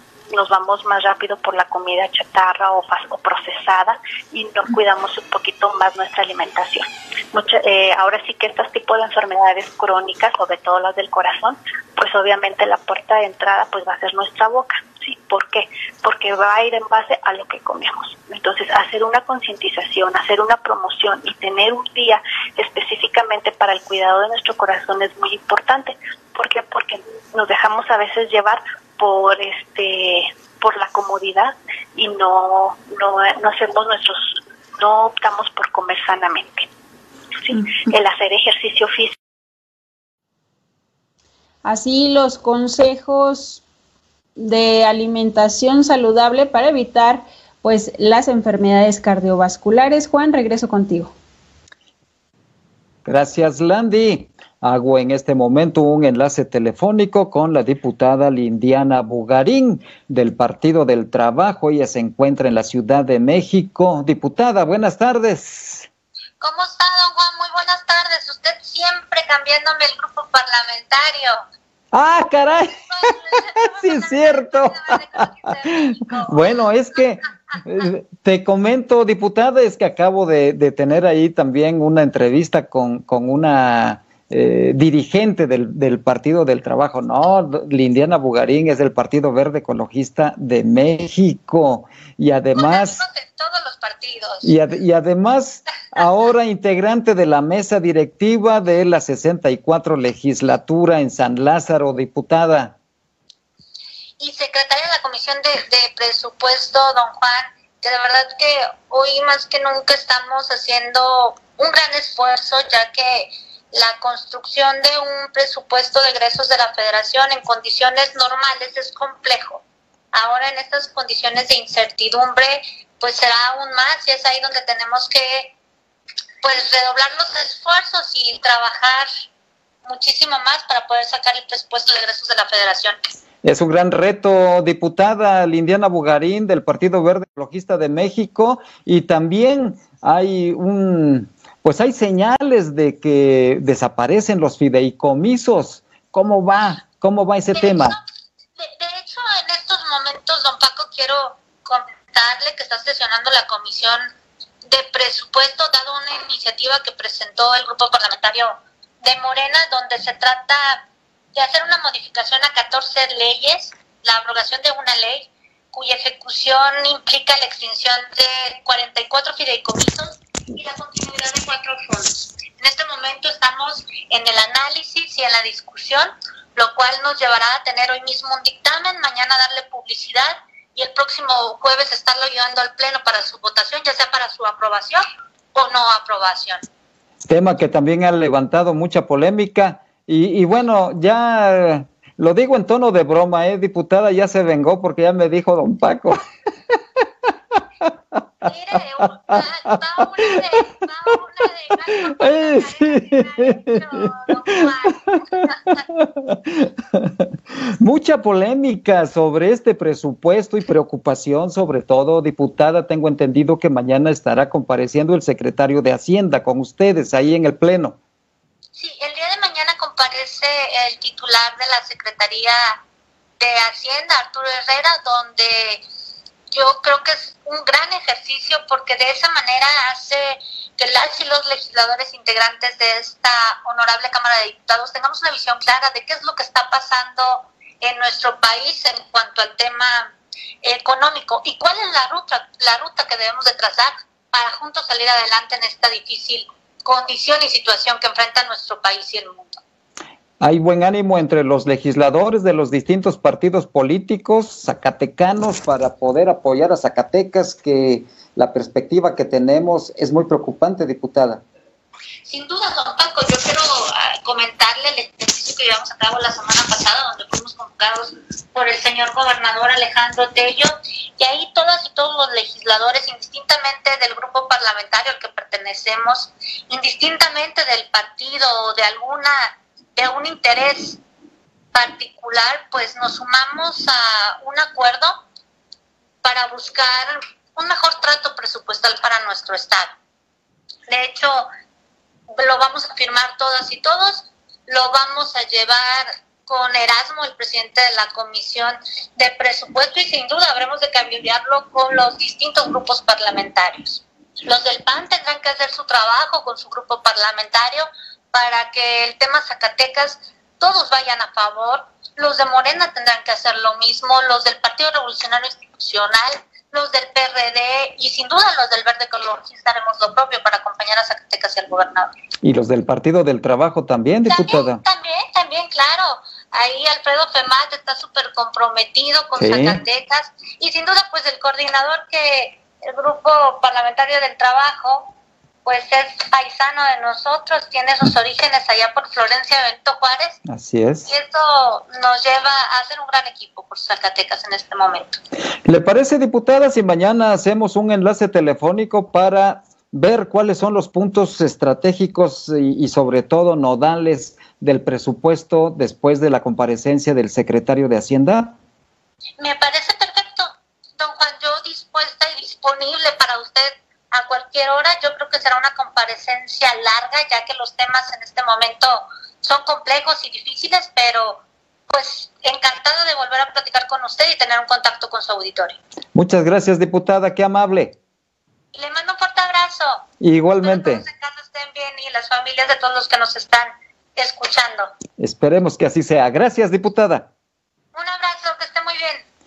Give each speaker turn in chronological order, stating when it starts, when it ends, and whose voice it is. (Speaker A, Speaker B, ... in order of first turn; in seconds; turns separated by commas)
Speaker A: 0.3-36.7, Speaker A: 37.5-39.1, Speaker B: 41.6-43.6, Speaker B: 44.4-51.1, Speaker C: 53.1-65.9, Speaker D: 66.4-71.4, Speaker C: 71.9-93.0, Speaker D: 72.8-76.5, Speaker D: 92.6-94.5, Speaker C: 94.4-102.8, Speaker D: 104.2-125.5, Speaker D: 126.4-129.1, Speaker D: 129.8-133.0, Speaker C: 133.4-148.0, Speaker D: 147.5-148.0, Speaker D: 148.6-154.1, Speaker D: 154.7-160.8, Speaker D: 161.3-186.6, Speaker C: 187.3-196.2, Speaker D: 198.4-205.8, Speaker C: 198.4-201.2, Speaker C: 201.9-207.2, Speaker C: 207.8-218.0, Speaker D: 218.8-222.8, Speaker D: 223.4-225.8, Speaker D: 226.5-249.6, Speaker C: 250.4-261.4, Speaker D: 262.3-281.0, Speaker D: 281.7-285.2, Speaker D: 286.2-289.9, Speaker D: 290.9-291.5, Speaker D: 292.4-322.1, Speaker C: 322.4-324.8, Speaker D: 324.3-335.1, Speaker C: 329.4-329.8, Speaker D: 335.6-340.4, Speaker C: 340.5-341.1, Speaker D: 341.1-345.2, Speaker C: 345.7-358.6, Speaker D: 359.4-375.8, Speaker C: 376.1-378.0, Speaker D: 378.7-380.0, Speaker C: 380.2-381.0, Speaker D: 380.6-384.9, Speaker C: 385.2-387.3, Speaker D: 387.9-389.2